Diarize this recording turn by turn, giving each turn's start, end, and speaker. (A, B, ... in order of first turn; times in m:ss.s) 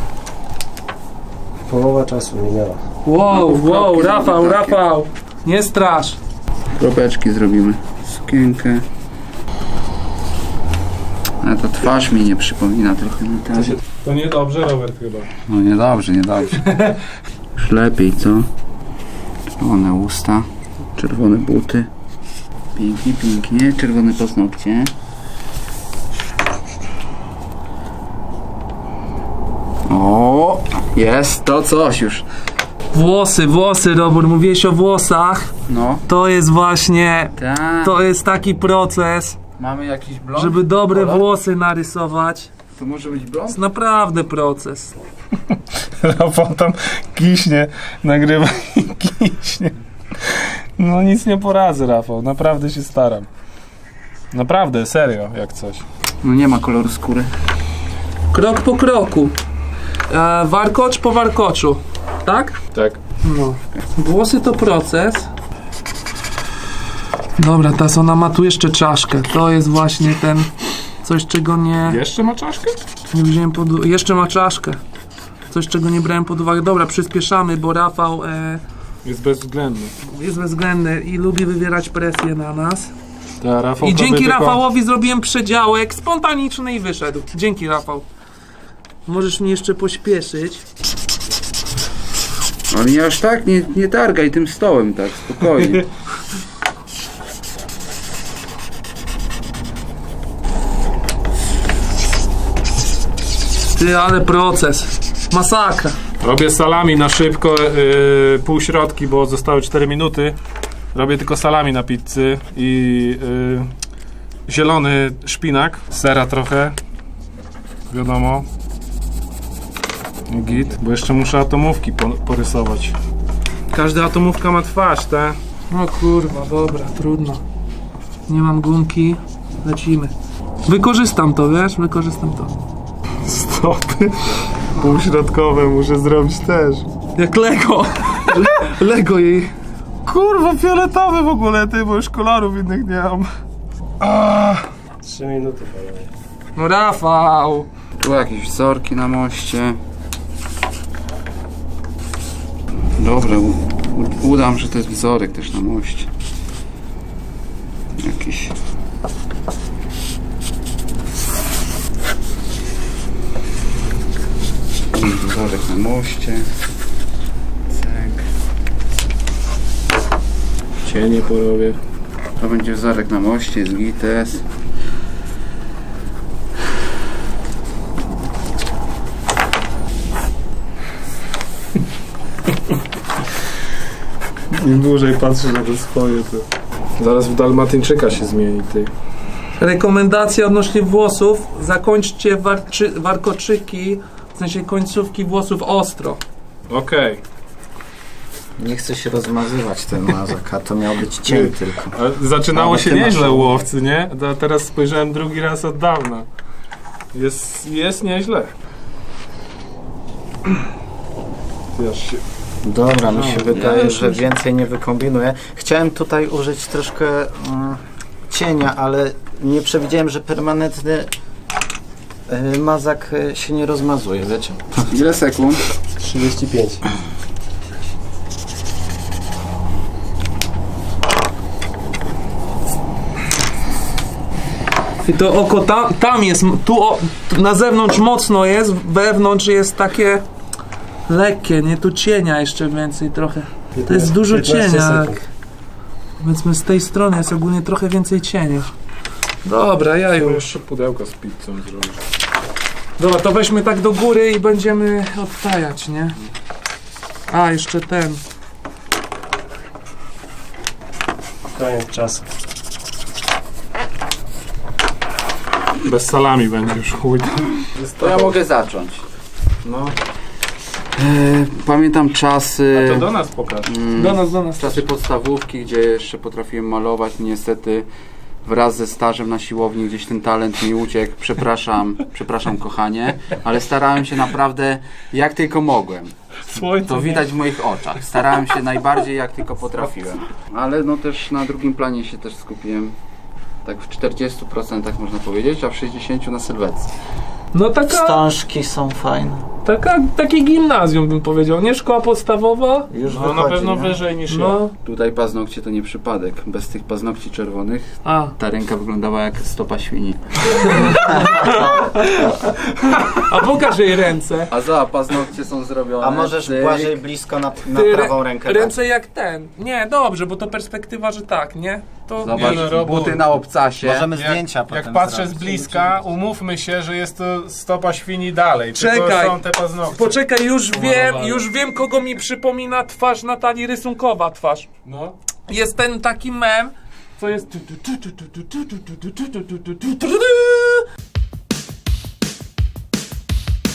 0:01.7-0:02.8 A
0:03.1-0:06.2 B
0:03.3-0:04.8 C
0:06.8-0:08.8 C
0:11.4-0:13.8 C
0:14.0-0:15.3 D
0:15.5-0:16.6 C
0:17.6-0:18.5 C
0:19.6-0:21.9 C
0:22.8-0:24.9 C
0:29.9-0:32.2 C
0:32.9-0:35.5 B
0:35.7-0:36.0 C
0:36.1-0:39.4 B
0:37.4-0:37.9 C
0:39.6-0:41.3 C
0:40.4-0:42.5 B
0:42.8-0:43.6 C
0:43.5-0:45.0 B
0:46.0-0:53.3 D
0:54.3-0:55.8 D
0:56.2-0:57.3 C
0:58.3-0:59.4 B
1:00.1-1:02.6 B
1:03.2-1:05.3 B
1:07.4-1:12.0 B
1:11.8-1:12.8 D
1:13.1-1:14.8 B
1:15.5-1:18.6 B
1:19.0-1:19.9 D
1:20.1-1:22.9 B
1:23.4-1:24.6 D
1:23.8-1:28.0 B
1:29.1-1:30.6 B
1:32.7-1:35.8 C
1:43.8-1:46.0 B
1:46.2-1:50.4 D
1:50.9-1:53.7 D
1:54.5-1:56.8 D
1:57.9-1:58.5 D
2:00.3-2:03.0 D
2:03.7-2:05.4 D
2:05.7-2:07.4 B
2:08.3-2:10.1 B
2:10.7-2:12.5 B
2:13.2-2:16.9 D
2:17.2-2:19.5 B
2:20.1-2:23.3 D
2:24.0-2:24.7 D
2:25.0-2:26.1 A
2:26.6-2:27.7 B
2:28.0-2:29.8 C
2:33.0-2:36.1 C
2:38.0-2:38.5 C
2:44.9-2:46.5 C
2:47.7-2:48.2 C
2:50.8-2:51.8 D
2:52.4-2:54.4 C
3:04.5-3:06.5 D
3:07.0-3:08.9 D
3:09.6-3:16.2 B
3:16.7-3:17.2 D
3:18.6-3:22.0 E
3:21.3-3:26.3 D
3:22.5-3:23.7 E
3:27.1-3:28.5 D
3:31.8-3:32.2 D
3:32.6-3:41.1 E
3:33.1-3:34.1 D
3:42.3-3:44.6 E
3:44.9-3:45.6 C
3:46.0-3:46.8 A
3:55.0-4:00.2 B
4:01.1-4:05.2 B
4:03.8-4:05.2 A
4:06.2-4:08.7 B
4:09.4-4:10.4 B
4:10.1-4:12.0 D
4:13.0-4:16.2 B
4:17.3-4:18.2 B
4:21.5-4:22.3 A
4:25.8-4:28.4 D
4:28.0-4:29.0 C
4:29.6-4:30.0 D
4:31.0-4:33.1 C
4:32.7-4:33.7 D
4:33.6-4:37.9 C
4:34.0-4:34.8 B
4:38.4-4:46.1 C
4:46.5-4:47.2 D
4:46.7-4:53.0 C
4:53.6-4:56.9 C
4:57.5-4:58.2 B
4:57.9-4:59.4 E
4:59.6-5:02.9 B
5:02.9-5:04.0 E
5:03.1-5:04.6 D
5:04.3-5:04.7 B
5:04.8-5:10.2 C
5:08.0-5:08.3 B
5:10.5-5:12.4 B
5:11.1-5:11.9 E
5:13.0-5:14.5 B
5:14.5-5:17.0 C
5:16.0-5:18.8 E
5:17.7-5:22.7 B
5:22.2-5:24.1 C
5:22.3-5:23.4 D
5:23.8-5:26.0 E
5:24.2-5:31.5 D
5:28.7-5:34.7 B
5:34.8-5:35.1 D
5:35.5-5:40.8 B